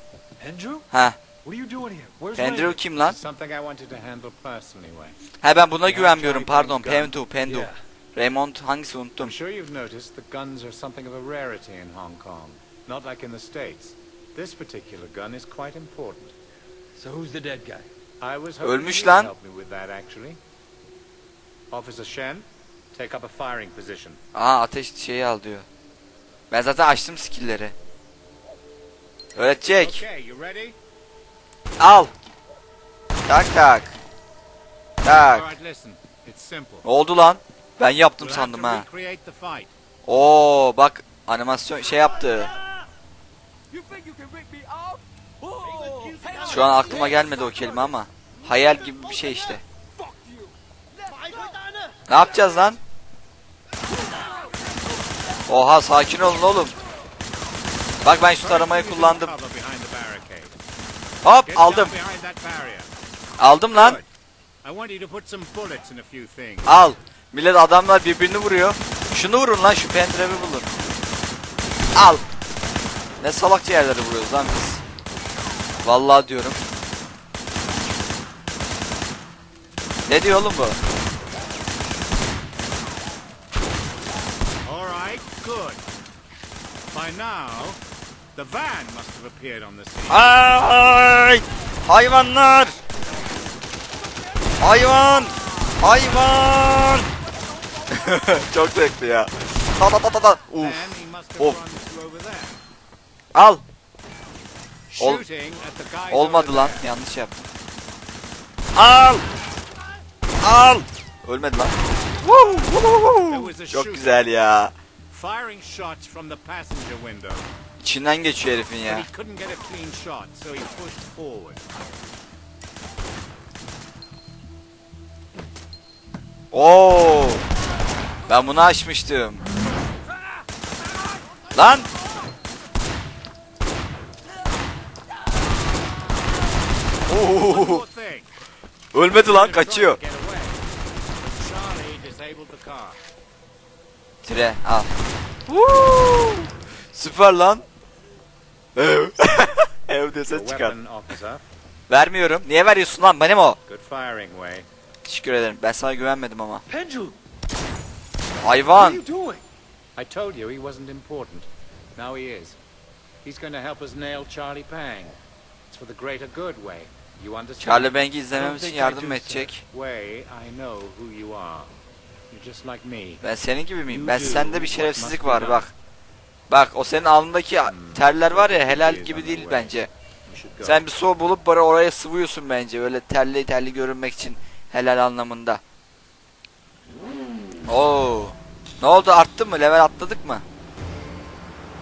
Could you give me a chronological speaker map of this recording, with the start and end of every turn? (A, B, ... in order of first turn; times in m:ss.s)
0:00.4-0:00.9 A
0:00.9-0:01.2 B
0:01.4-0:02.8 A
0:02.3-0:03.2 B
0:03.0-0:05.2 C
0:05.4-0:09.3 B
0:05.8-0:07.2 C
0:07.4-0:07.8 A
0:09.2-0:16.3 C
0:17.0-0:17.9 A
0:18.2-0:20.4 C
0:18.6-0:19.3 B
0:21.7-0:24.2 C
0:24.3-0:25.6 B
0:26.5-0:27.7 B
0:29.4-0:30.0 B
0:29.7-0:30.8 C
0:31.8-0:32.1 B
0:33.3-0:33.9 B
0:35.0-0:35.5 B
0:35.0-0:36.8 C
0:36.8-0:38.8 B
0:38.2-0:39.7 C
0:40.0-0:42.5 B
0:43.7-0:47.7 D
0:45.6-0:46.2 A
0:46.4-0:49.6 B
0:50.0-0:52.2 D
0:51.1-0:51.5 C
0:52.1-0:52.8 B
0:54.0-0:54.5 D
0:55.5-0:56.7 B
0:58.0-0:59.3 B
0:58.4-1:00.6 C
1:01.2-1:01.9 B
1:01.4-1:02.9 C
1:03.4-1:04.0 B
1:03.7-1:04.1 C
1:04.6-1:06.7 C
1:06.6-1:10.7 B
1:11.9-1:12.2 B
1:13.2-1:14.8 B
1:15.8-1:16.6 B
1:20.1-1:20.8 B
1:24.6-1:25.8 C
1:26.9-1:27.8 C
1:28.3-1:30.4 C
1:30.1-1:32.8 B
1:34.6-1:37.1 B
1:37.9-1:40.8 B
1:40.5-1:42.6 C
1:43.3-1:43.6 B
1:44.9-1:46.9 C
1:45.0-1:45.2 B
1:46.1-1:47.4 B
1:48.7-1:49.2 B
1:50.4-1:54.7 B
1:52.2-1:54.3 C
1:55.1-1:57.5 C
1:57.8-1:59.0 B
1:58.8-2:01.8 C
2:06.5-2:07.4 B
2:08.2-2:09.4 B
2:11.5-2:11.9 B
2:17.1-2:17.8 B
2:17.1-2:18.3 C
2:18.9-2:20.0 B
2:19.1-2:20.6 C
2:21.2-2:23.0 C
2:24.2-2:24.9 B
2:25.5-2:27.6 B
2:28.8-2:30.8 B
2:30.2-2:31.4 C
2:31.9-2:33.6 B
2:33.6-2:34.7 C
2:35.0-2:36.6 B
2:36.7-2:37.2 A
2:38.4-2:39.0 B
2:38.7-2:39.4 A
2:40.0-2:42.6 C
2:43.2-2:45.2 C
2:45.7-2:48.1 C
2:47.6-2:49.6 B
2:48.3-2:49.5 A
2:49.6-2:53.2 C
2:53.2-2:55.7 B
2:53.8-2:55.7 C
2:56.5-2:59.9 B
2:57.6-3:00.8 C
3:00.6-3:05.6 B
3:07.7-3:10.4 B